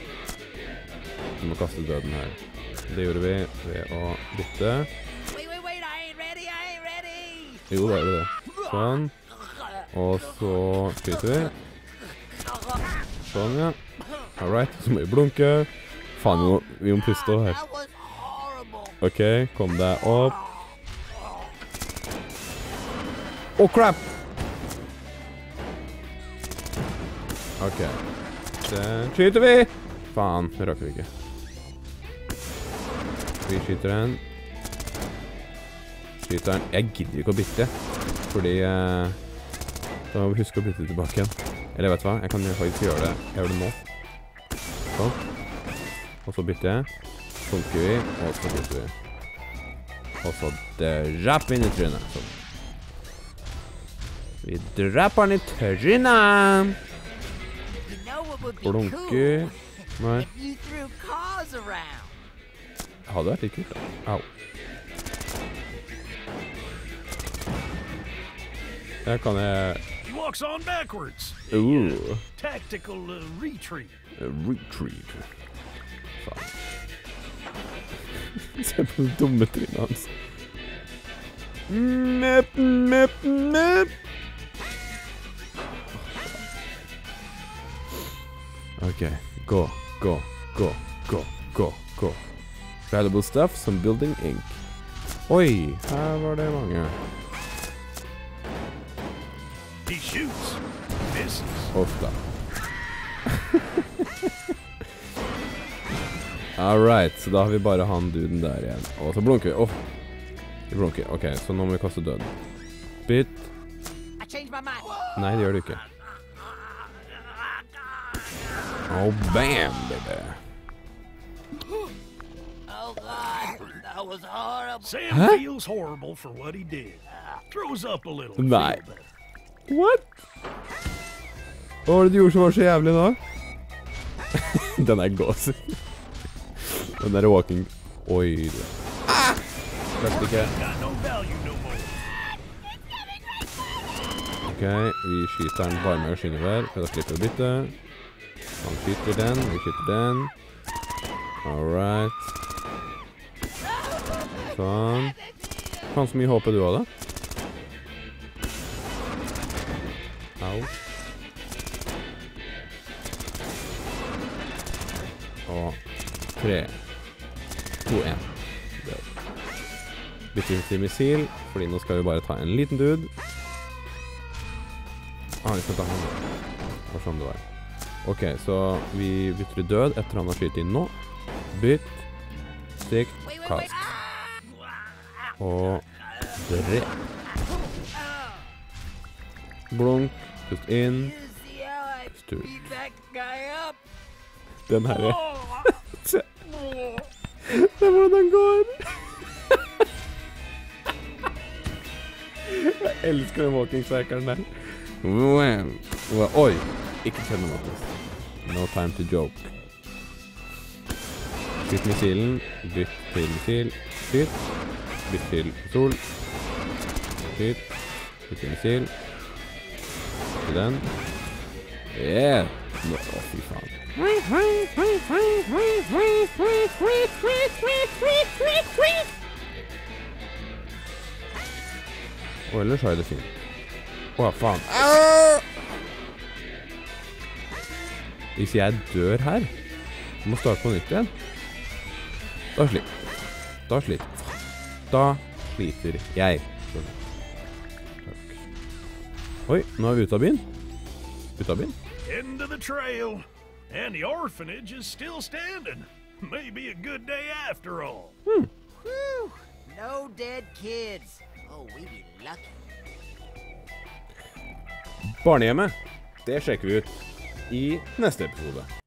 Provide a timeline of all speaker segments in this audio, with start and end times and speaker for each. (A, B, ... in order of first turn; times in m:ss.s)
0:01.4-0:04.9 A
0:05.3-0:07.7 B
0:07.7-0:09.1 A
0:08.3-0:08.9 B
0:09.9-0:11.5 A
0:13.2-0:13.8 A
0:14.4-0:17.6 A
0:16.2-0:19.0 B
0:19.0-0:20.4 A
0:20.0-0:20.8 B
0:23.6-0:24.1 A
0:27.6-0:28.1 A
0:28.6-0:31.1 A
0:33.4-0:34.2 A
0:36.2-0:37.7 A
0:38.3-0:39.2 A
0:40.1-0:43.8 A
0:44.9-0:45.2 A
0:46.2-0:46.9 A
0:47.4-0:48.9 A
0:50.2-0:52.4 A
0:54.4-0:56.8 A
0:57.8-1:02.2 B
0:58.6-1:00.3 A
1:03.0-1:04.3 A
1:09.0-1:09.8 A
1:10.0-1:13.9 C
1:11.5-1:12.2 A
1:14.2-1:15.3 A
1:16.2-1:16.5 A
1:18.4-1:20.1 A
1:21.7-1:23.9 A
1:25.9-1:26.3 A
1:28.8-1:32.3 A
1:32.9-1:34.6 A
1:35.3-1:37.0 A
1:39.8-1:41.7 C
1:41.7-1:42.2 A
1:43.5-1:44.0 A
1:46.6-1:49.8 A
1:50.7-1:52.3 A
1:53.0-1:53.5 A
1:54.2-1:55.4 B
1:55.1-1:55.8 A
1:58.9-2:00.4 A
2:02.7-2:05.0 B
2:04.8-2:09.1 C
2:05.1-2:05.4 A
2:08.4-2:08.8 A
2:09.7-2:10.1 A
2:11.8-2:13.2 A
2:14.4-2:15.8 A
2:16.6-2:20.5 A
2:20.0-2:22.0 C
2:24.4-2:27.8 A
2:28.6-2:30.3 A
2:31.4-2:32.3 A
2:33.8-2:35.9 B
2:34.4-2:35.2 A
2:35.9-2:36.9 A
2:40.4-2:40.7 A
2:45.5-2:45.8 A
2:46.4-2:46.8 A
2:47.8-2:49.1 A
2:50.3-2:53.1 A
2:55.4-2:56.2 A
2:56.9-2:57.4 A
2:58.0-3:00.9 A
3:01.5-3:02.0 A
3:02.8-3:03.7 A
3:03.2-3:08.5 B
3:05.4-3:05.8 A
3:06.4-3:06.9 A
3:09.7-3:11.1 A
3:10.9-3:13.8 B
3:12.2-3:12.5 A
3:14.7-3:16.3 A
3:14.9-3:15.8 B
3:16.5-3:17.1 B
3:17.4-3:18.9 A
3:22.4-3:29.5 A
3:31.6-3:34.4 A
3:35.0-3:36.0 A
3:37.2-3:37.7 A
3:38.3-3:38.9 A
3:40.3-3:40.9 A
3:41.9-3:49.1 A
3:52.5-3:53.4 A
3:54.2-3:55.4 A
3:58.4-3:59.5 A
4:00.2-4:01.1 A
4:02.5-4:03.1 A
4:03.7-4:04.3 A
4:04.9-4:06.9 A
4:08.0-4:08.4 A
4:09.4-4:10.4 A
4:11.4-4:11.8 A
4:12.0-4:18.2 C
4:18.8-4:22.5 B
4:25.2-4:28.7 A